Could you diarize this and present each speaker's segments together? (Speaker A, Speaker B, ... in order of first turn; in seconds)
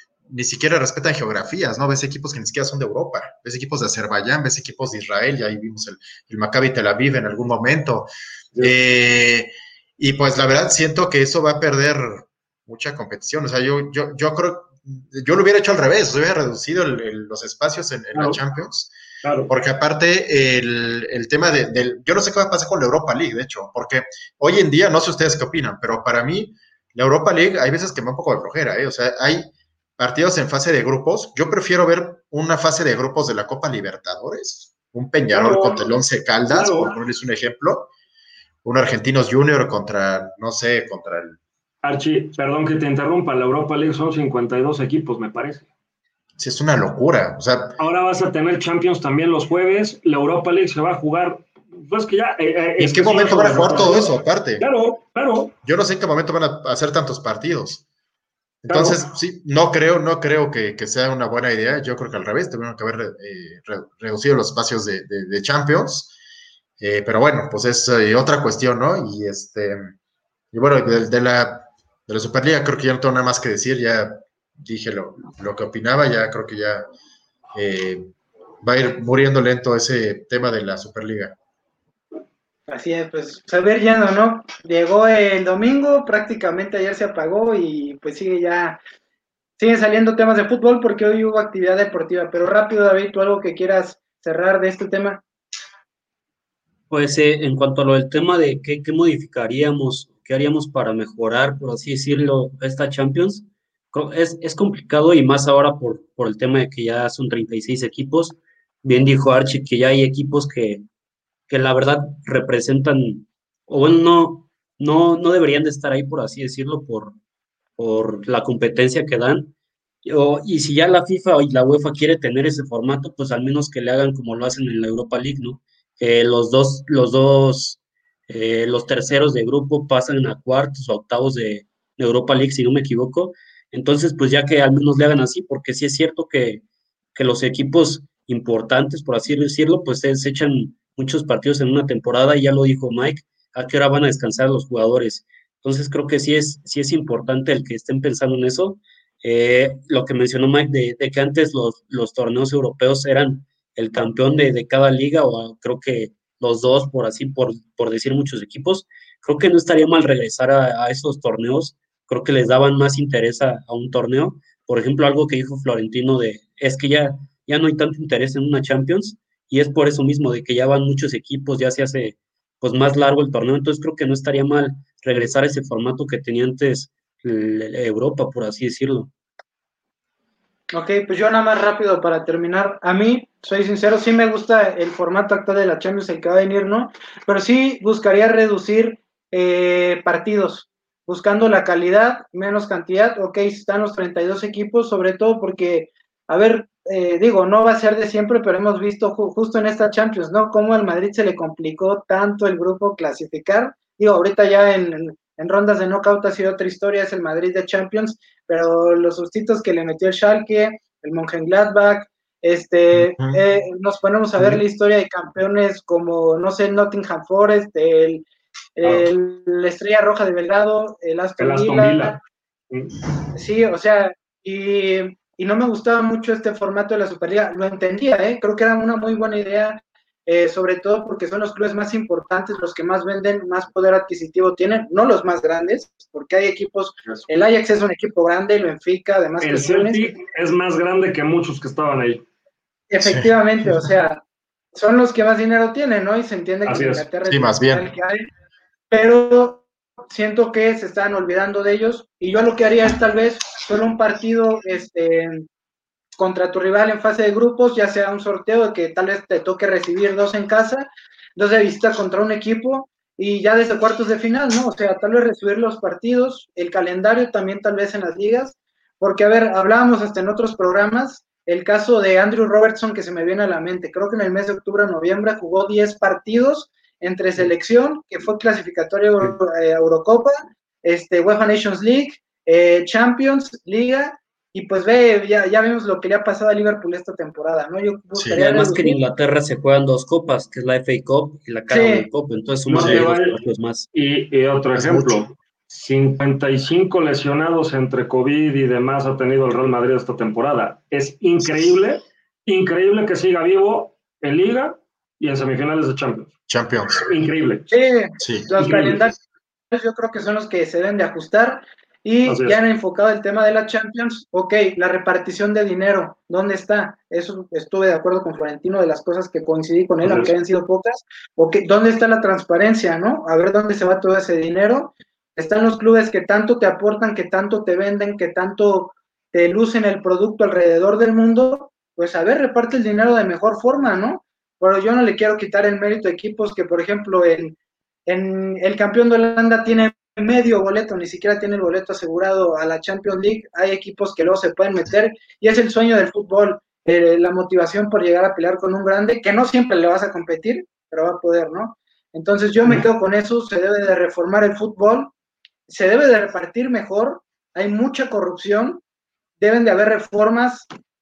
Speaker A: 0.3-18.9, 19.5-37.9, 38.6-41.4, 46.4-47.8, 52.8-54.7, 55.6-57.8, 58.7-66.1, 66.8-69.9, 70.5-76.8, 77.5-81.3, 212.9-213.4, 243.0-243.3, 247.3-247.9, 288.1-288.4, 292.8-293.1, 294.8-295.3, 306.5-307.1, 308.2-308.5
Speaker B: 18.1-18.4, 19.2-19.5, 35.3-35.9, 36.5-37.0, 41.8-45.7, 47.8-55.5, 58.7-59.0, 221.4-222.2, 239.4-242.2, 246.7-247.1, 292.7-293.4, 293.9-306.3, 307.0-307.7, 308.6-309.0, 312.3-312.6, 320.0-320.3
Speaker C: 82.7-88.8, 89.6-95.2, 180.7-218.2, 218.8-222.2, 223.3-240.1, 242.9-244.2, 244.8-248.2, 248.9-255.5, 256.2-289.0, 291.7-292.1, 307.7-309.2, 309.7-337.6, 338.1-355.1, 355.7-358.8, 359.4-360.7
Speaker D: 96.9-110.8, 111.5-117.2, 117.8-119.5, 120.0-136.6, 137.2-179.1, 288.3-293.9